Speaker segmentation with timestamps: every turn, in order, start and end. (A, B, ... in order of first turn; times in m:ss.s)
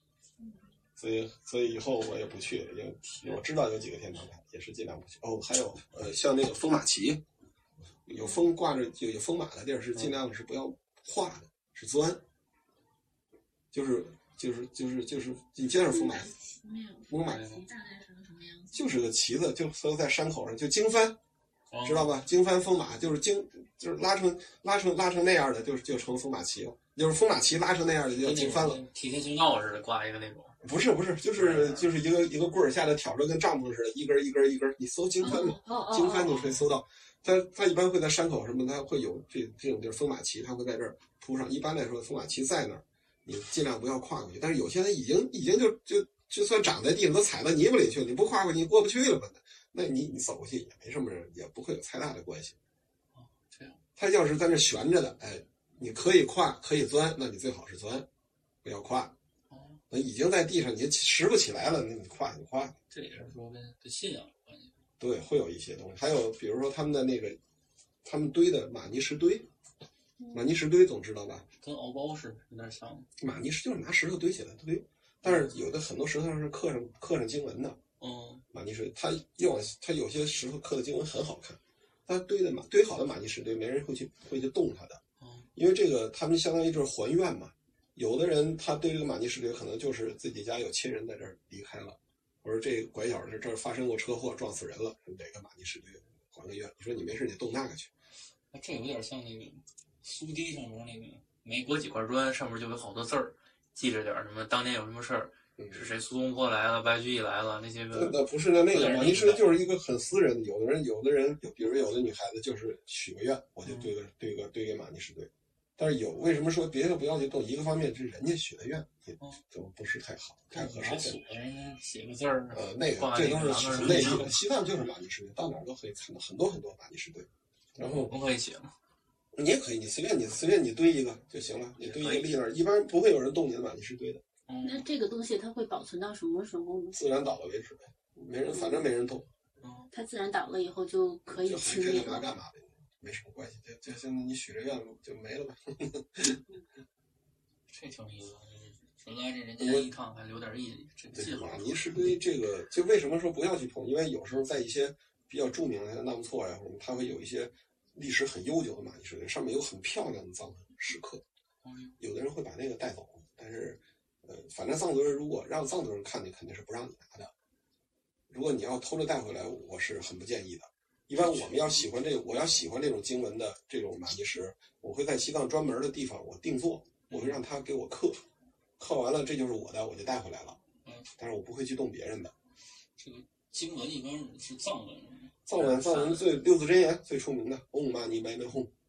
0:00.4-0:00.7 A
0:01.0-0:07.2 B
0:03.1-0:03.4 C
0:08.0-0:12.2 B
0:09.9-0:10.2 C
0:13.7-0:16.3 B
0:15.9-0:18.8 A
0:17.1-0:17.5 B
0:17.2-0:17.6 C
0:18.7-0:21.2 B
0:21.7-0:22.1 C
0:21.8-0:28.8 B
0:28.2-0:30.6 C
0:30.6-0:52.6 B
0:31.3-0:31.9 C
0:35.2-0:36.6 A
0:53.1-0:53.8 C
0:54.0-0:58.1 B
0:58.6-0:59.1 B
0:59.5-0:59.8 C
0:59.9-1:03.3 B
1:02.9-1:04.7 C
1:05.0-1:07.4 B
1:08.0-1:09.5 B
1:10.2-1:10.5 A
1:10.3-1:11.5 B
1:11.6-1:13.1 C
1:13.2-1:17.8 B
1:15.2-1:15.5 C
1:18.0-1:18.4 C
1:18.5-1:25.0 B
1:25.2-1:25.5 C
1:25.5-1:37.9 B
1:38.5-1:49.5 C
1:45.6-1:45.9 B
1:47.9-2:01.2 B
1:53.6-1:53.9 C
2:00.5-2:04.3 C
2:02.5-2:08.1 B
2:07.8-2:08.7 C
2:09.3-2:14.2 B
2:11.8-2:12.3 C
2:14.5-2:14.9 C
2:14.6-2:17.0 A
2:16.9-2:19.3 B
2:18.5-2:18.8 A
2:19.6-2:19.9 C
2:19.9-2:22.3 A
2:21.3-2:26.4 B
2:27.7-2:32.2 C
2:29.6-2:29.9 B
2:31.1-2:41.2 B
2:41.6-2:42.0 C
2:42.0-2:47.3 B
2:48.3-2:58.2 B
2:51.2-2:51.9 C
2:57.1-2:57.4 C
2:58.8-3:00.6 B
3:00.8-3:01.1 C
3:01.2-3:02.3 B
3:03.0-3:06.3 C
3:05.4-3:08.7 B